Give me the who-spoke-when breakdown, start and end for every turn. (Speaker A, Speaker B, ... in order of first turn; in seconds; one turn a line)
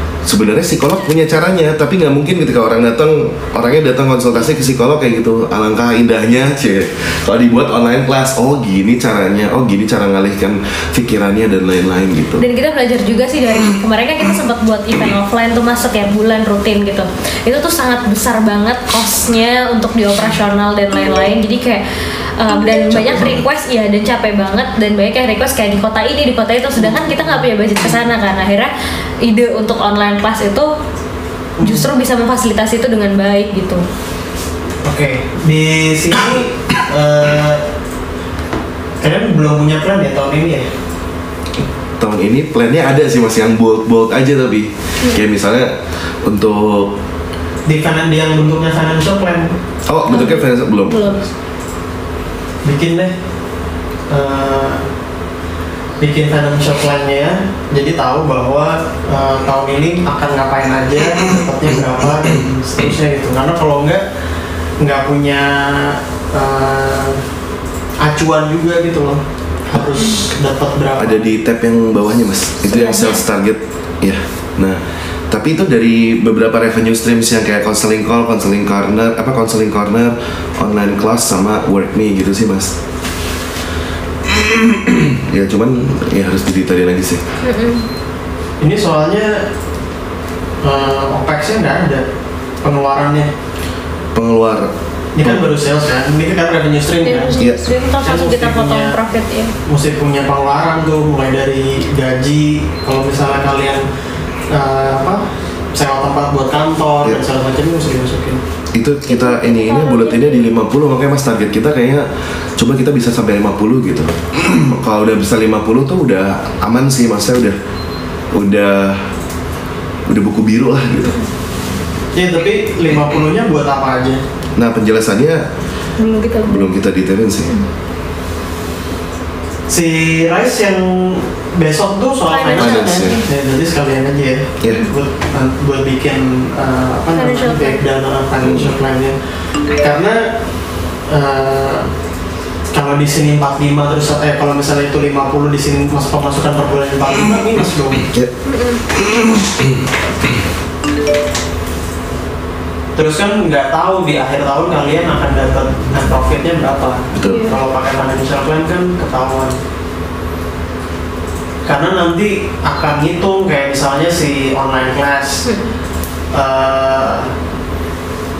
Speaker A: 0.2-12.4
Speaker B: 12.4-21.8
Speaker B: 22.4-30.7
Speaker A: 22.6-23.4
Speaker C: 26.8-27.4
Speaker C: 31.6-31.9
Speaker B: 31.6-33.8
Speaker C: 34.8-37.6
Speaker C: 39.0-40.7
Speaker A: 42.0-46.9
Speaker C: 47.6-49.5
Speaker A: 49.9-51.3
Speaker B: 50.1-51.2
Speaker C: 52.6-53.1
Speaker C: 54.1-54.8
Speaker C: 56.0-64.0
Speaker C: 64.8-67.2
Speaker C: 68.0-71.3
Speaker B: 70.0-70.2
Speaker A: 71.0-74.8
Speaker B: 72.7-73.2
Speaker A: 75.3-82.7
Speaker A: 84.3-87.2
Speaker B: 87.4-87.9
Speaker C: 88.6-89.4
Speaker C: 90.6-92.0
Speaker C: 92.6-93.3
Speaker A: 94.1-94.7
Speaker C: 95.1-97.3
Speaker B: 97.0-99.5
Speaker A: 97.4-97.6
Speaker C: 98.0-98.9
Speaker C: 99.7-103.8
Speaker C: 104.5-108.4
Speaker A: 108.7-112.0
Speaker B: 109.1-110.5
Speaker A: 112.6-117.6
Speaker A: 118.3-119.1
Speaker A: 120.1-121.2
Speaker C: 122.1-124.2
Speaker A: 124.5-125.4
Speaker B: 126.0-126.7
Speaker A: 126.5-127.5
Speaker C: 129.7-139.2
Speaker B: 132.3-133.2
Speaker A: 132.6-133.1
Speaker B: 137.2-137.8
Speaker A: 138.4-138.7
Speaker C: 139.8-140.3
Speaker C: 141.1-141.9
Speaker C: 142.7-148.0
Speaker B: 148.4-148.8
Speaker C: 152.9-159.5
Speaker A: 157.1-157.4
Speaker B: 157.2-157.6
Speaker C: 161.7-165.5
Speaker B: 165.4-165.7
Speaker C: 166.3-167.3